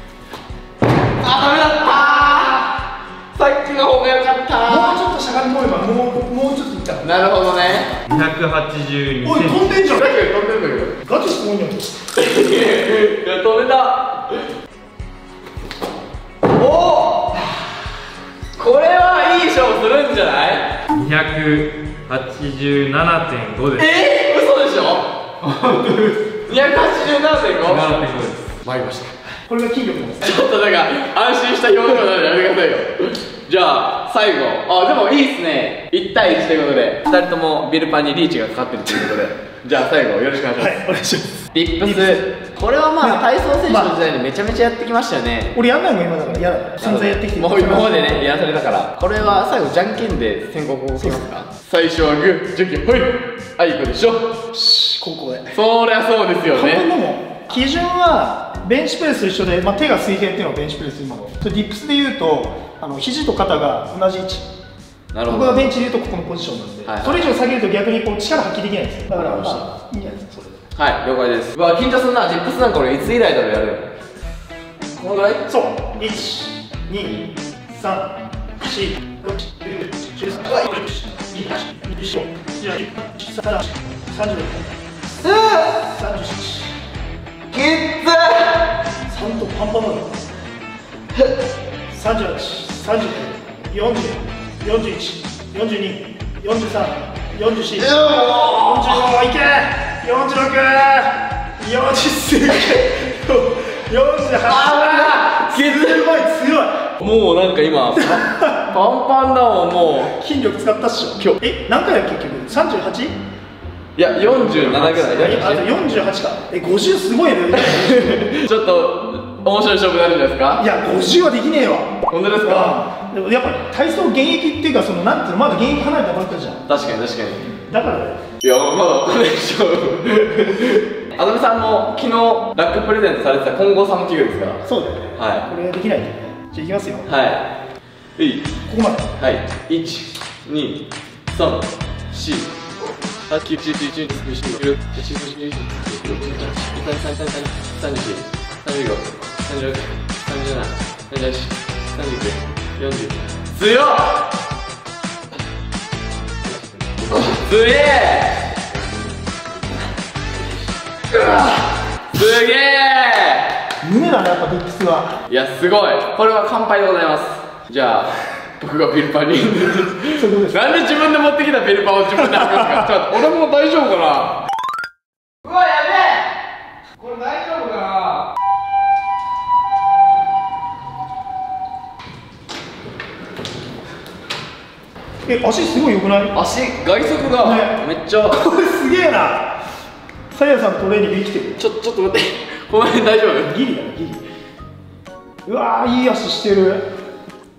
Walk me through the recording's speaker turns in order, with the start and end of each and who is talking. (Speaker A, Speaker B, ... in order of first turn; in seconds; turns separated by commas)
Speaker A: 1.2-5.0, Speaker B: 4.6-7.1, Speaker A: 7.0-8.0, Speaker C: 8.1-9.7, Speaker B: 9.2-10.1, Speaker A: 9.9-11.0, Speaker B: 11.0-12.0, Speaker A: 12.1-14.4, Speaker A: 16.5-17.6, Speaker A: 18.6-20.8, Speaker C: 20.9-23.9, Speaker A: 23.8-25.1, Speaker C: 25.4-26.2, Speaker A: 26.4-28.0, Speaker C: 27.6-28.5, Speaker A: 28.6-29.1, Speaker B: 29.4-30.4, Speaker A: 30.2-40.9, Speaker B: 40.6-42.2, Speaker A: 41.5-45.6, Speaker B: 43.0-44.0, Speaker B: 45.5-48.0, Speaker A: 46.8-54.4, Speaker B: 51.0-51.2, Speaker B: 54.5-55.5, Speaker A: 55.5-56.8, Speaker B: 56.5-64.5, Speaker A: 65.1-65.7, Speaker B: 65.3-70.6, Speaker A: 66.8-67.3, Speaker A: 69.1-69.7, Speaker A: 70.7-73.9, Speaker A: 74.9-75.5, Speaker B: 75.5-84.8, Speaker A: 85.2-85.7, Speaker B: 85.7-86.7, Speaker A: 87.5-88.7, Speaker B: 89.0-90.2, Speaker B: 91.9-106.9, Speaker A: 97.8-99.1, Speaker A: 104.4-106.0, Speaker A: 107.0-110.2, Speaker B: 108.0-108.5, Speaker B: 110.0-113.2, Speaker A: 114.0-115.8, Speaker B: 114.7-118.3, Speaker A: 117.5-120.7, Speaker B: 120.6-126.6, Speaker A: 122.1-122.8, Speaker A: 126.7-127.5, Speaker B: 127.5-128.2, Speaker A: 128.4-134.6, Speaker B: 134.6-137.1, Speaker A: 135.2-135.5, Speaker A: 137.1-137.5, Speaker A: 138.2-138.5, Speaker B: 138.7-139.1, Speaker A: 139.2-142.5, Speaker A: 143.3-154.3, Speaker A: 157.1-158.6, Speaker A: 161.1-163.7, Speaker B: 163.8-165.2, Speaker A: 165.3-174.4, Speaker B: 170.1-170.6, Speaker A: 175.4-176.2, Speaker C: 177.1-177.8, Speaker A: 177.2-178.1, Speaker B: 185.2-186.3, Speaker A: 186.3-188.4, Speaker B: 187.4-189.6, Speaker B: 190.3-191.6, Speaker A: 191.6-193.6, Speaker B: 193.5-194.2, Speaker B: 195.4-196.8